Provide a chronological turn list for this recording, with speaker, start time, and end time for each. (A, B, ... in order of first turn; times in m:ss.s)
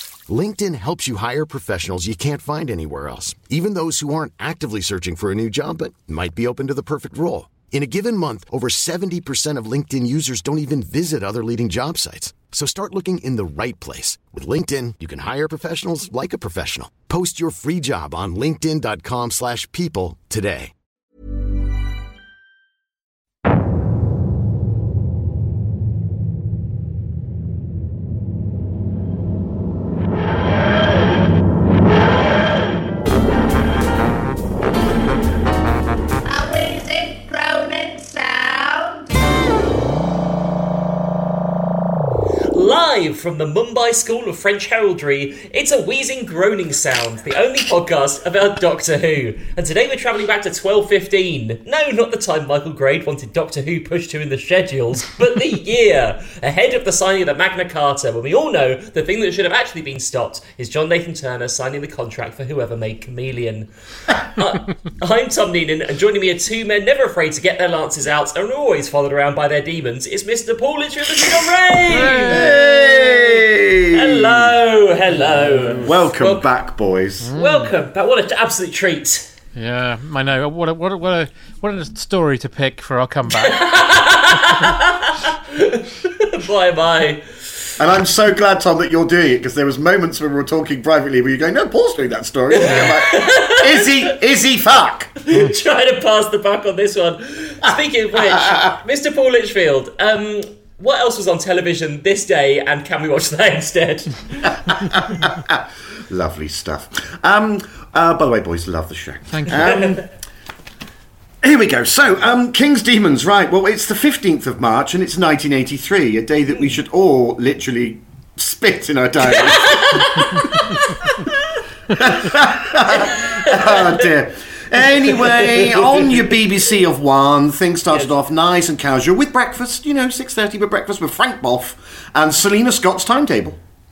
0:00.3-0:20.7 A
0:36.3-0:38.8 B
0:42.5-1:13.4 C
1:11.9-1:12.6 D
1:12.2-1:14.5 E
1:13.9-1:16.4 C
1:15.1-1:16.0 D
1:15.8-1:17.3 E
1:17.2-1:17.7 D
1:17.4-1:19.3 C
1:19.6-1:23.8 D
1:23.3-1:27.4 C
1:27.8-1:35.1 E
1:32.5-1:34.2 C
1:32.7-1:33.0 D
1:35.2-1:44.2 C
1:38.2-1:38.7 E
1:44.4-1:50.0 E
1:49.3-1:49.8 D
1:49.6-1:50.0 C
1:51.4-2:00.3 E
1:59.2-2:01.3 C
2:01.9-2:13.6 E
2:02.9-2:04.0 C
2:05.0-2:06.4 C